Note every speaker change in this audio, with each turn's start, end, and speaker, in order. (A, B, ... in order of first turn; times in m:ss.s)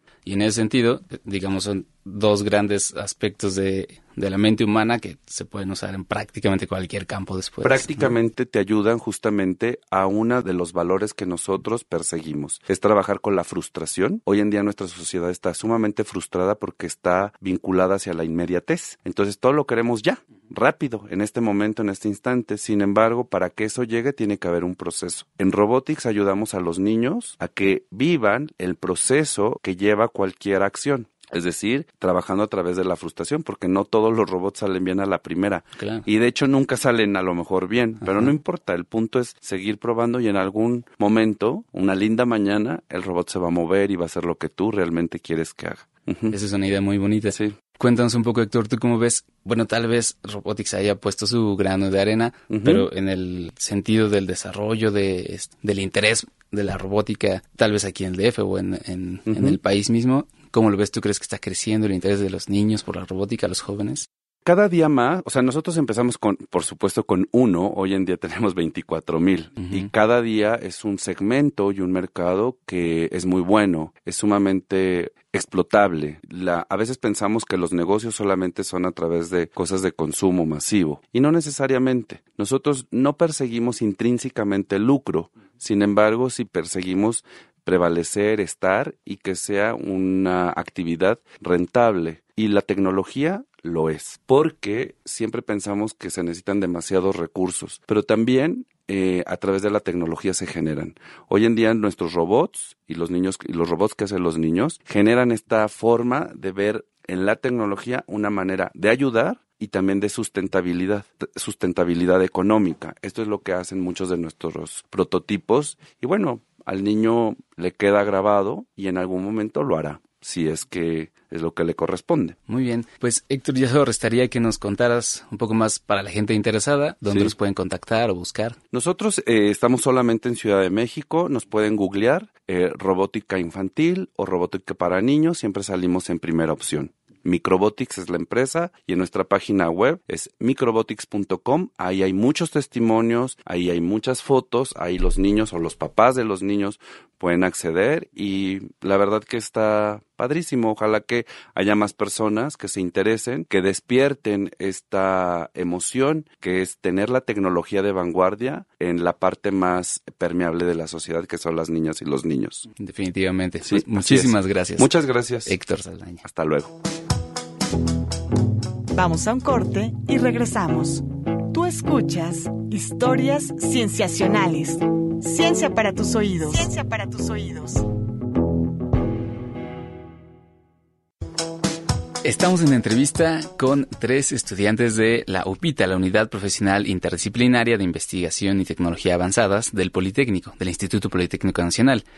0:00.2-0:08.1 A
0:07.6-0:46.3 B
0:35.8-0:36.0 A
0:38.0-0:38.3 A
0:46.3-1:04.0 A
0:52.5-0:52.9 B
0:59.3-0:59.6 B
1:04.4-2:02.4 B
1:09.6-1:09.9 A
2:02.5-2:08.6 A
2:07.0-2:07.3 B
2:08.7-2:42.7 B
2:42.8-2:44.9 A
2:43.6-2:45.5 B
2:45.4-2:46.2 A
2:46.2-2:46.7 B
2:48.9-2:57.8 C
3:02.2-3:12.0 A